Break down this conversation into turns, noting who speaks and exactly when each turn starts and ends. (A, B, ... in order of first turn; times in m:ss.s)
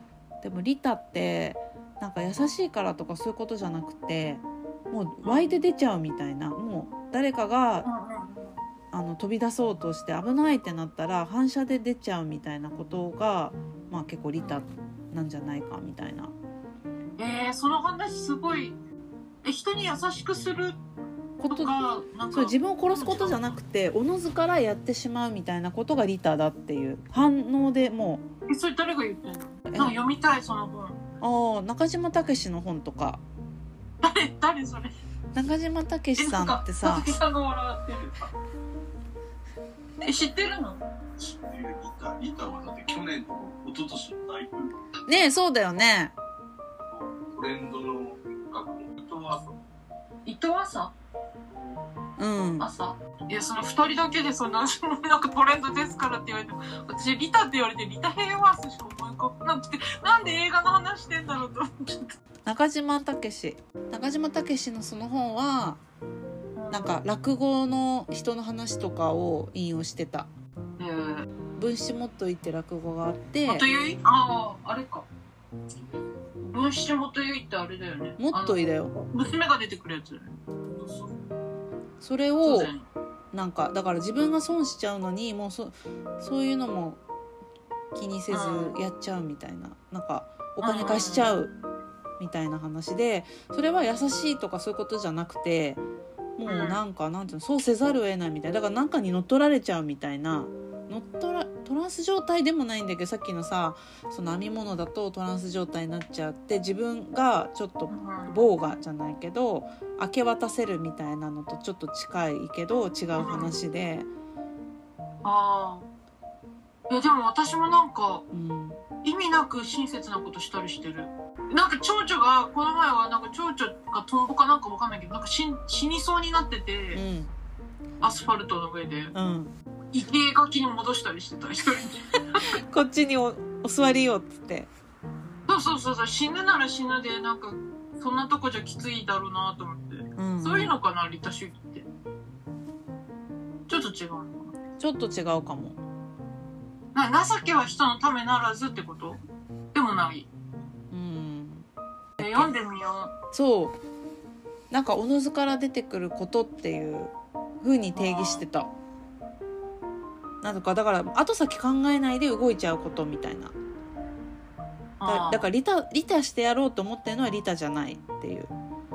0:00.4-0:07.9 A
0:05.2-0:05.6 B
0:07.8-0:08.7 B
0:08.9-0:16.3 A
0:14.4-0:14.6 B
0:17.2-0:18.8 B
0:19.4-0:20.8 B
0:21.4-0:21.7 A
0:21.5-0:23.6 B
0:22.3-0:28.2 A
0:28.5-0:31.0 B
0:29.7-0:30.0 A
0:31.2-0:33.2 A
0:34.0-0:34.9 B
0:35.3-0:37.1 A
0:36.2-0:38.3 B
0:40.0-0:40.8 B
0:41.2-0:44.7 C
0:45.1-0:46.1 A
0:46.9-0:49.6 C
0:50.2-0:50.9 B
0:51.5-0:51.8 C
0:52.2-0:52.7 A
0:52.6-1:02.1 B
1:02.4-1:05.8 A
1:06.6-1:07.0 B
1:06.7-1:10.3 A
1:10.8-1:11.2 B
1:11.6-1:13.6 A
1:13.4-1:15.1 B
1:16.4-1:21.1 B
1:18.2-1:18.9 A
1:22.0-1:22.7 A
1:22.4-1:22.9 B
1:23.3-1:27.0 A
1:27.9-1:31.5 A
1:28.3-1:28.8 B
1:30.6-1:31.4 B
1:32.2-1:35.8 A
1:36.4-1:54.1 A
1:36.4-1:36.8 B
1:47.9-1:48.5 B
1:53.2-1:53.6 B
1:55.2-1:55.9 B
1:56.9-1:58.2 B
1:58.3-1:58.8 A
1:59.0-2:07.0 B
2:06.9-2:07.3 A
2:08.0-2:09.1 B
2:09.1-2:09.5 A
2:09.9-2:12.5 B
2:12.6-2:14.7 A
2:15.5-2:21.9 B
2:20.2-2:20.7 A
2:23.7-2:24.5 B
2:24.8-2:25.8 A
2:26.9-2:29.2 B
2:29.7-2:30.3 B
2:30.9-2:31.7 A
2:32.2-2:32.5 A
2:32.2-2:33.1 B
2:33.3-2:33.8 A
2:34.7-2:38.7 A
2:37.9-2:38.4 B
2:40.4-2:43.5 A
2:45.0-2:45.5 B
2:45.0-2:48.5 A